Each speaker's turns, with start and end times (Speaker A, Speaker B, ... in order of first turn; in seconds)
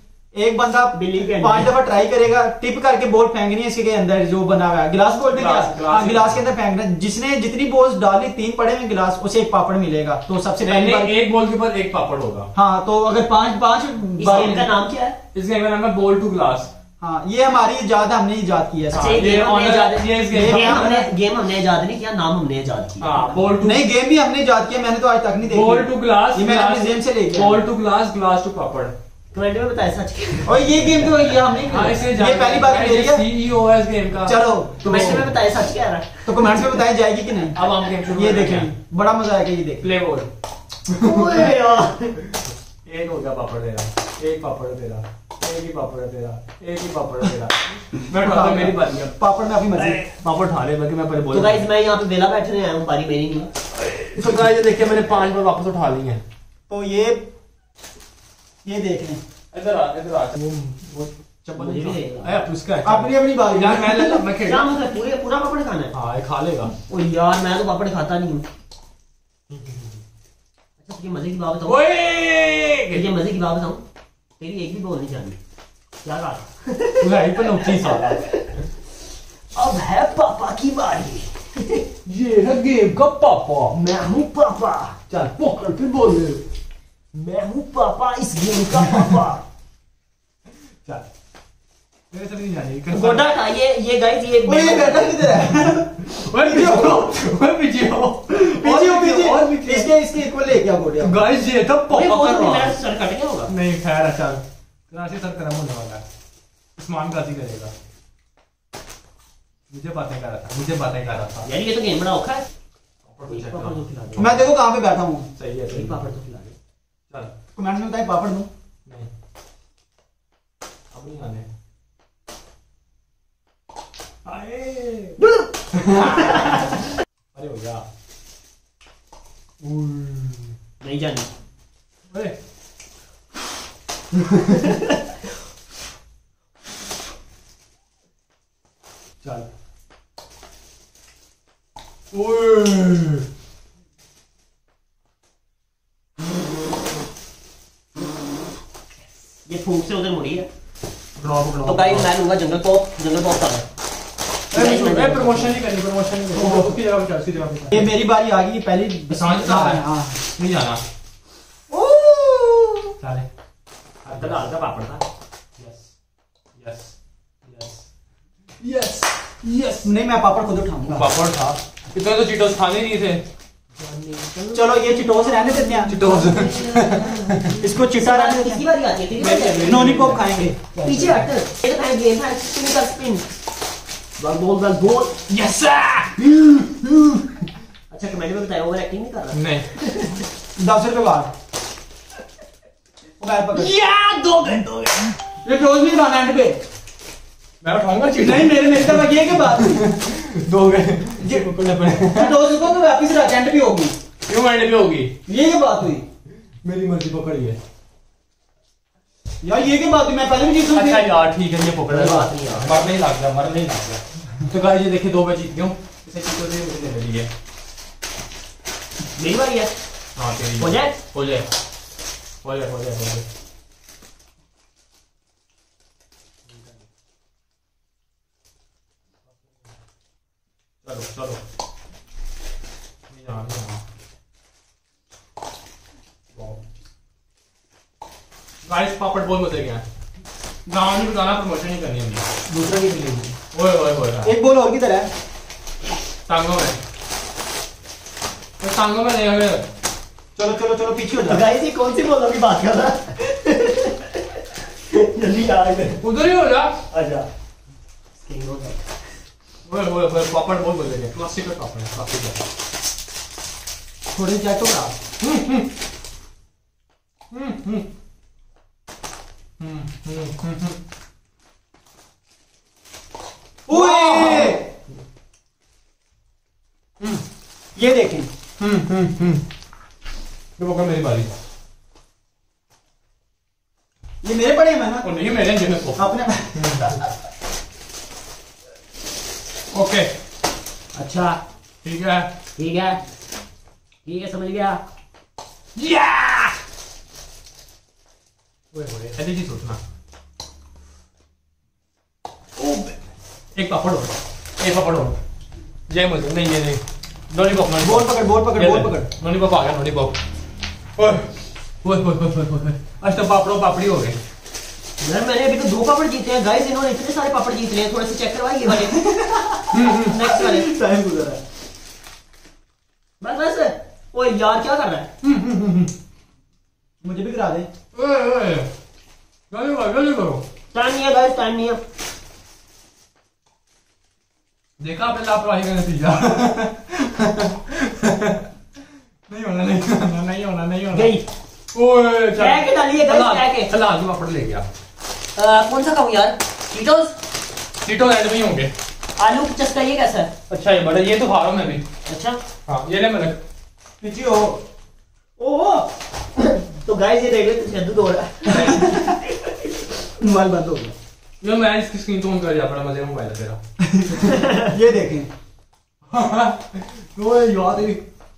Speaker A: 0.3-11.2, 12.6-14.7, 17.0-19.2, 20.3-21.1, 23.6-27.6, 30.4-33.2, 34.2-35.4, 36.2-39.9, 48.1-50.0, 56.7-57.3, 58.6-59.2, 62.8-64.2, 94.4-97.0, 98.3-101.2, 114.2-115.3, 117.6-118.5, 157.7-160.2, 169.8-171.1, 174.5-176.0, 177.6-178.6, 179.6-180.6, 190.6-191.3, 193.2-193.7, 195.4-196.6, 198.2-199.8, 201.2-203.9, 205.3-206.0, 209.4-211.1, 242.5-243.3, 244.2-245.1, 250.4-251.4, 264.1-264.9, 273.7-274.6, 277.8-278.3, 284.2-285.1, 286.0-287.0, 307.8-309.1, 319.0-319.6, 320.2-321.4, 327.0-327.7, 354.0-354.6, 358.5-359.2, 360.2-360.9, 363.8-365.3
Speaker B: 0.9-1.7, 14.2-15.2, 18.9-23.4, 29.3-31.1, 34.8-36.6, 41.0-42.2, 51.3-53.5, 61.5-62.4, 64.5-65.9, 66.9-68.5, 70.8-71.8, 72.9-73.8, 74.4-75.4, 76.0-78.5, 79.5-81.8, 83.7-85.0, 87.1-89.4, 92.9-95.2, 101.9-103.5, 111.4-112.5, 113.3-114.4, 115.7-116.6, 125.2-126.7, 130.8-131.3, 134.4-135.2, 149.5-150.5, 151.7-153.7, 154.5-155.6, 161.7-162.8, 164.1-165.1, 173.8-179.9, 180.8-183.3, 184.2-185.2, 187.9-190.2, 211.9-212.8, 219.2-219.7, 220.6-221.0, 251.2-254.2, 254.9-256.0, 256.9-257.3, 258.2-258.9, 290.9-291.4, 292.6-293.0, 294.1-294.8, 315.0-319.0, 319.8-320.8, 323.2-325.1, 330.7-331.8, 340.9-341.3, 342.4-343.7, 345.4-347.1, 349.2-350.3, 352.1-352.4, 355.4-359.1, 364.3-364.7
Speaker C: 5.3-6.4, 10.6-12.5, 14.3-14.6, 15.3-16.7, 18.9-21.0, 23.0-23.9, 25.5-28.9, 31.7-35.3, 37.5-38.7, 39.8-40.3, 40.9-41.5, 42.9-49.1, 49.8-51.6, 53.9-56.2, 59.5-64.7, 65.9-66.7, 69.5-70.0, 71.7-73.0, 77.0-78.2, 82.0-83.8, 85.1-86.4, 92.1-93.3, 96.0-99.9, 101.0-102.8, 103.5-106.0, 106.8-107.7, 109.7-111.5, 113.0-113.8, 115.4-116.0, 120.9-121.5, 124.3-125.2, 125.7-126.7, 127.3-127.8, 129.6-130.6, 132.1-132.3, 139.2-139.5, 142.1-143.2, 151.2-152.1, 154.5-157.9, 159.1-160.8, 163.0-163.3, 164.1-164.5, 165.6-165.9, 166.6-166.9, 167.4-167.8, 168.6-169.9, 170.8-173.2, 175.9-177.5, 179.2-181.2, 185.3-186.2, 189.3-189.7, 193.5-195.1, 197.6-202.4, 204.3-205.1, 206.6-207.6, 210.7-217.3, 220.2-221.5, 222.4-223.2, 226.5-226.8, 230.8-231.4, 233.1-233.8, 236.3-236.6, 238.6-239.8, 240.7-242.2, 243.5-244.3, 246.3-246.8, 248.6-249.7, 256.0-256.8, 259.6-262.4, 265.2-265.7, 267.3-267.8, 269.6-270.8, 273.7-274.6, 278.6-279.4, 280.6-281.3, 285.0-287.0, 289.7-290.1, 291.8-292.3, 295.8-296.6, 298.7-299.8, 302.6-302.9, 303.6-305.1, 305.9-310.2, 311.0-311.3, 311.8-314.2, 319.7-320.1, 325.2-325.9, 327.9-328.7, 329.5-330.4, 334.8-338.4, 339.3-341.1, 341.7-344.6, 347.8-348.7, 350.5-351.9, 352.7-353.4, 361.4-364.3, 366.1-368.0